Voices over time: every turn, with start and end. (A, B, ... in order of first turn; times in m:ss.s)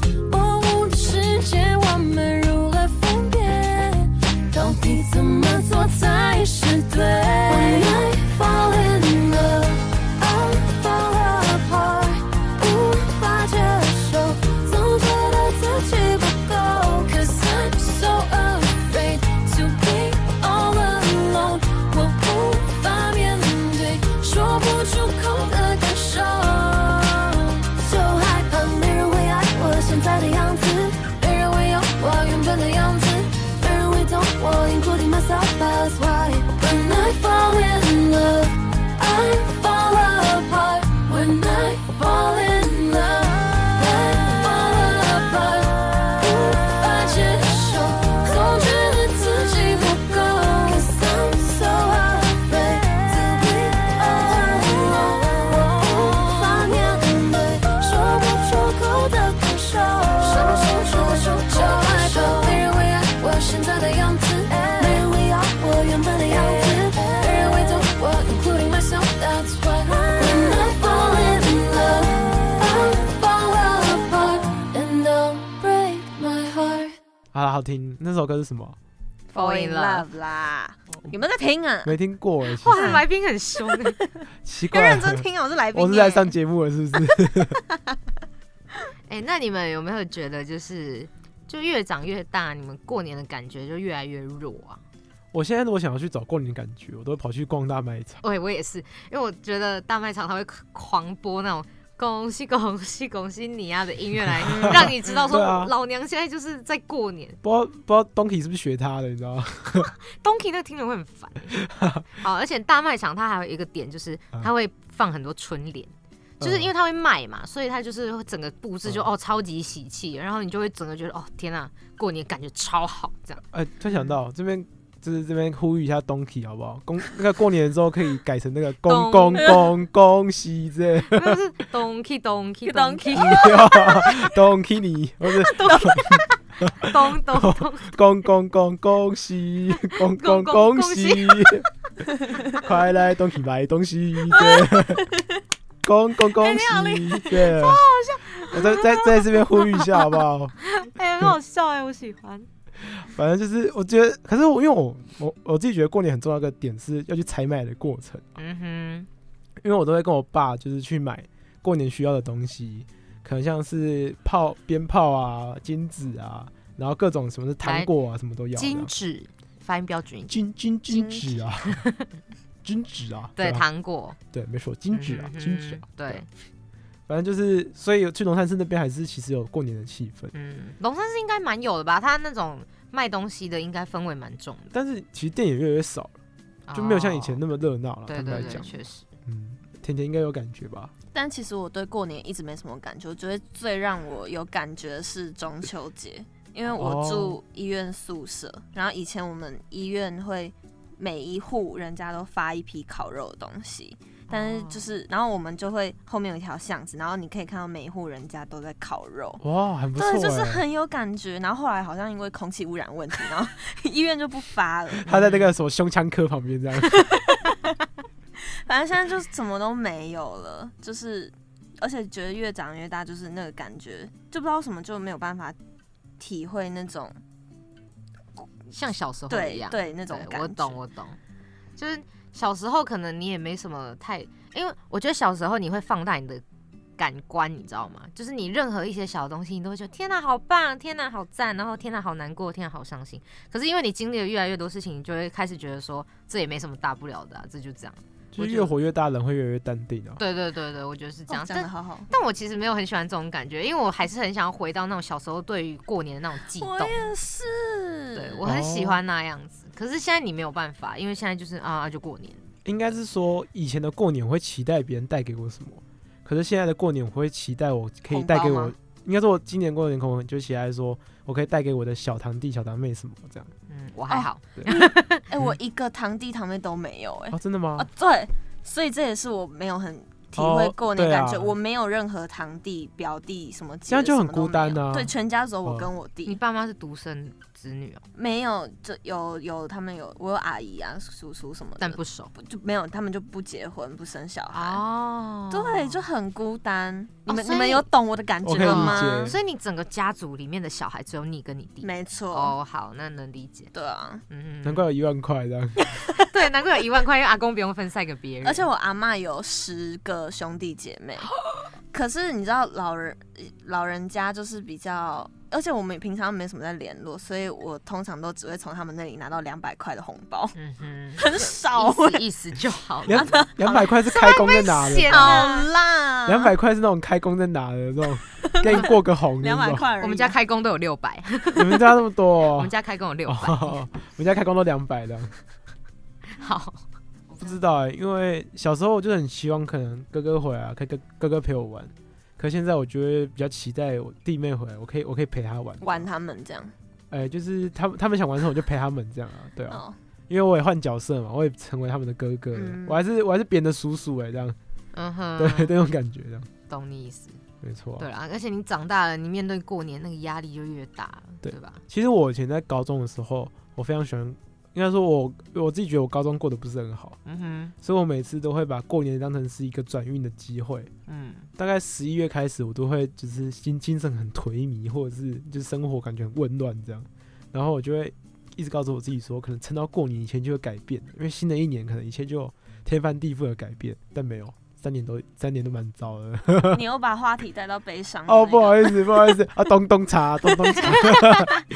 0:00.3-1:17.0 A
1:01.7-1:02.2 B
1:17.3-1:18.8 C
1:19.3-1:22.0 B
1:19.4-1:20.1 D
1:21.8-1:23.0 C
1:22.6-1:24.0 D
1:22.7-1:23.1 B
1:23.6-1:24.1 B
1:24.4-1:27.6 C
1:24.7-1:26.3 B
1:29.1-1:34.8 D
1:35.3-1:38.2 C
1:38.2-1:47.4 D
1:44.4-1:45.7 C
1:44.5-1:45.4 B
1:47.4-1:49.9 C
1:49.8-1:51.6 D
1:51.5-1:52.0 C
1:52.1-2:03.4 D
1:56.4-1:56.7 C
2:03.5-2:11.4 C
2:08.9-2:09.5 D
2:11.1-2:13.5 D
2:12.6-2:14.2 B
2:13.2-2:21.7 C
2:15.4-2:16.2 B
2:16.8-2:17.9 D
2:20.2-2:21.5 D
2:22.6-2:25.0 C
2:24.3-2:25.4 B
2:25.8-2:27.8 C
2:26.4-2:27.6 B
2:28.5-2:30.6 C
2:30.7-2:32.5 D
2:32.9-2:38.3 C
2:38.4-2:39.1 D
2:39.6-2:48.9 C
2:47.6-2:47.9 D
2:48.6-2:50.4 D
2:50.3-2:51.8 C
2:50.9-2:52.1 D
2:52.6-2:53.7 C
2:53.4-2:54.2 D
2:54.3-2:56.2 C
2:54.9-2:56.3 D
2:57.1-3:00.3 C
3:00.3-3:04.7 D
3:04.7-3:06.2 C
3:06.7-3:07.4 D
3:06.7-3:10.9 C
3:08.1-3:09.1 D
3:11.1-3:29.4 B
3:16.7-3:17.4 C
3:24.3-3:24.8 D
3:29.4-3:30.6 C
3:30.0-3:35.1 B
3:35.0-3:37.1 C
3:35.1-3:35.5 D
3:37.0-3:37.7 B
3:38.6-3:45.6 B
3:46.2-3:47.2 B
3:48.7-3:51.2 D
3:49.3-3:50.8 B
3:51.8-3:56.4 D
3:57.0-4:08.7 D
4:08.3-4:10.2 C
4:10.2-4:17.0 D
4:11.3-4:12.1 B
4:16.6-4:18.4 B
4:18.2-4:22.4 D
4:18.4-4:19.0 C
4:22.6-4:33.5 C
4:28.1-4:28.7 B
4:33.7-4:35.2 D
4:34.1-4:46.4 B
4:37.3-4:37.9 C
4:40.4-4:41.6 C
4:43.9-4:45.1 C
4:46.3-4:48.0 D
4:48.2-4:54.8 B
4:51.8-4:52.3 D
4:54.5-4:56.0 D
4:55.5-4:59.3 B
4:57.3-4:57.8 D
4:58.4-4:59.4 C
4:58.6-5:03.7 D
5:01.8-5:02.5 B
5:03.7-5:04.2 B
5:04.3-5:04.9 D
5:04.6-5:05.9 C
5:06.2-5:08.7 D
5:08.4-5:11.3 B
5:11.9-5:20.6 B
5:20.6-5:23.5 D
5:21.2-5:22.2 B
5:23.1-5:25.5 C
5:23.1-5:24.0 B
5:24.1-5:25.7 D
5:25.1-5:26.5 B
5:26.3-5:29.8 C
5:28.4-5:30.4 B
5:28.7-5:28.9 D
5:30.0-5:31.9 D
5:31.6-5:32.7 C
5:32.6-5:33.8 D
5:33.3-5:35.3 C
5:36.4-5:36.8 D
5:37.4-5:46.1 C
5:45.8-5:46.7 B
5:47.1-5:54.6 C
5:49.7-5:50.0 B
5:52.5-5:53.0 B
5:54.9-5:55.7 D
5:55.4-5:56.5 C
5:56.7-5:57.4 D
5:57.6-5:58.1 C
5:58.0-6:01.8 D
6:01.4-6:07.2 C
6:07.2-6:07.7 D
6:07.8-6:10.9 C
6:11.1-6:11.5 D
6:11.6-6:26.8 C
6:26.7-6:29.3 B
6:28.3-6:31.6 C
6:30.7-6:31.6 B